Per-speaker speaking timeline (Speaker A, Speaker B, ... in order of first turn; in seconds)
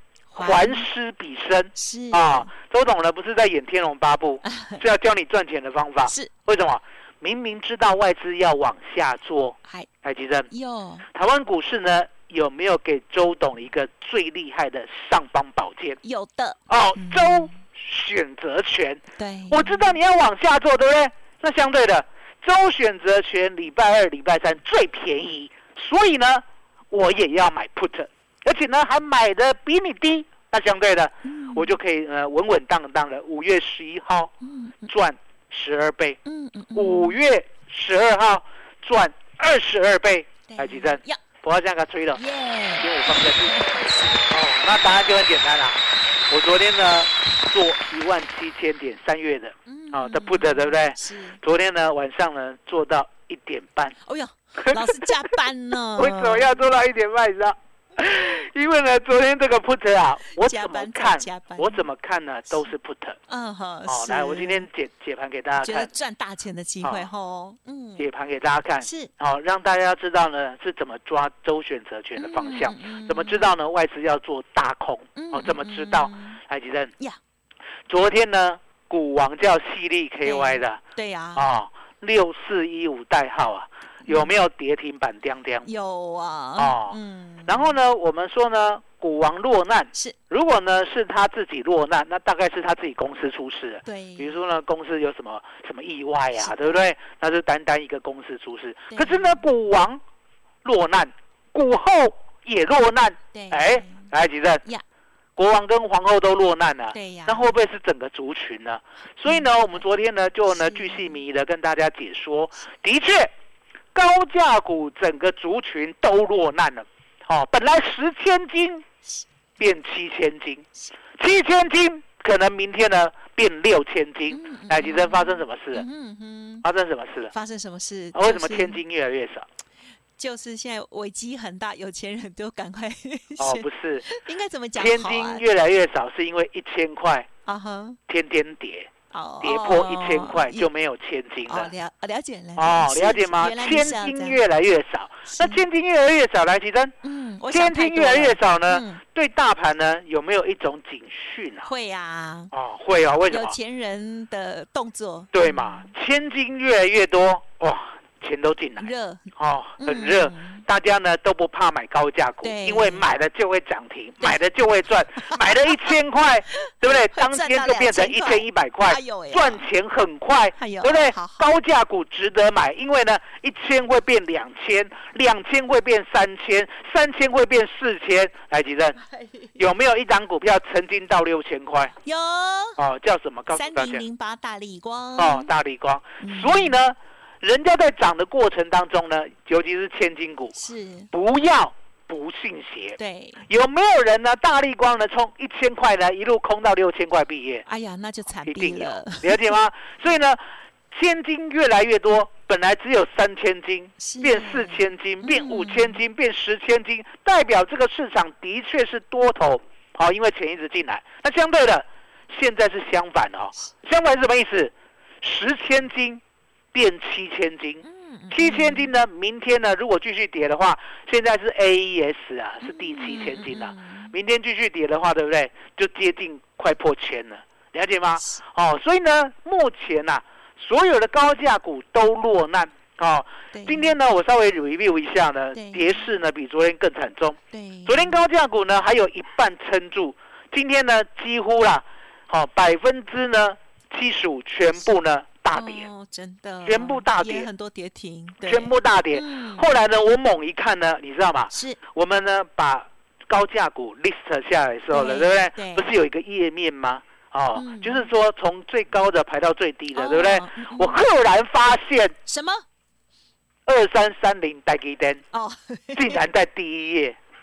Speaker A: 0.3-0.9, 1.8-2.5, 4.4-4.8, 6.1-6.3, 10.5-11.1, 16.0-17.6, 19.2-20.0, 31.2-31.8, 34.4-34.9, 36.2-37.2, 40.5-41.2, 42.2-44.3, 49.7-51.4, 54.0-56.6, 60.4-61.9, 63.3-64.7, 65.6-68.1, 68.8-69.1, 72.2-73.5, 75.2-76.4, 80.2-81.5, 84.1-84.3, 85.6-87.8, 93.8-94.4, 96.4-96.8, 98.9-99.4, 103.3-104.1, 106.9-107.5, 109.2-109.8, 110.5-111.2, 124.3-126.7, 127.3-128.8, 130.2-135.4, 137.5-138.0, 139.1-140.7, 141.5-144.4, 145.3-145.6, 147.0-149.0, 151.6-152.5, 153.3-155.9, 158.8-160.7, 162.4-163.1, 165.2-165.9, 166.6-169.7, 170.6-171.5, 179.0-179.6, 182.0-182.8, 183.5-185.5, 186.2-186.8, 190.6-191.1, 193.0-193.4, 197.7-199.6, 204.0-206.0, 217.8-218.9, 222.6-224.1, 233.5-233.9, 235.5-236.0, 237.5-238.2, 245.5-249.7, 251.5-251.8, 254.9-255.9, 257.6-258.1, 259.9-261.0, 262.3-262.6, 265.3-266.2
Speaker B: 0.4-10.5, 11.1-16.0, 16.7-34.3, 34.9-36.2, 36.7-42.2, 42.8-43.6, 44.3-54.0, 54.6-55.3, 56.0-63.2, 63.9-65.9, 66.8-67.1, 68.0-76.9, 77.9-80.8, 81.3-85.7, 86.6-100.0, 100.6-104.6, 105.4-113.3, 113.9-118.9, 119.6-120.7, 121.2-125.9, 126.6-127.3, 128.1-129.5, 133.4-134.1, 134.8-137.3, 138.1-141.7, 142.6-146.9, 147.5-151.7, 152.5-153.6, 155.3-179.0, 179.6-181.9, 182.8-184.0, 185.2-190.6, 191.1-197.7, 198.4-200.4, 200.9-216.2, 216.7-245.9, 246.7-247.5, 248.4-262.2, 263.7-265.2, 265.9-267.2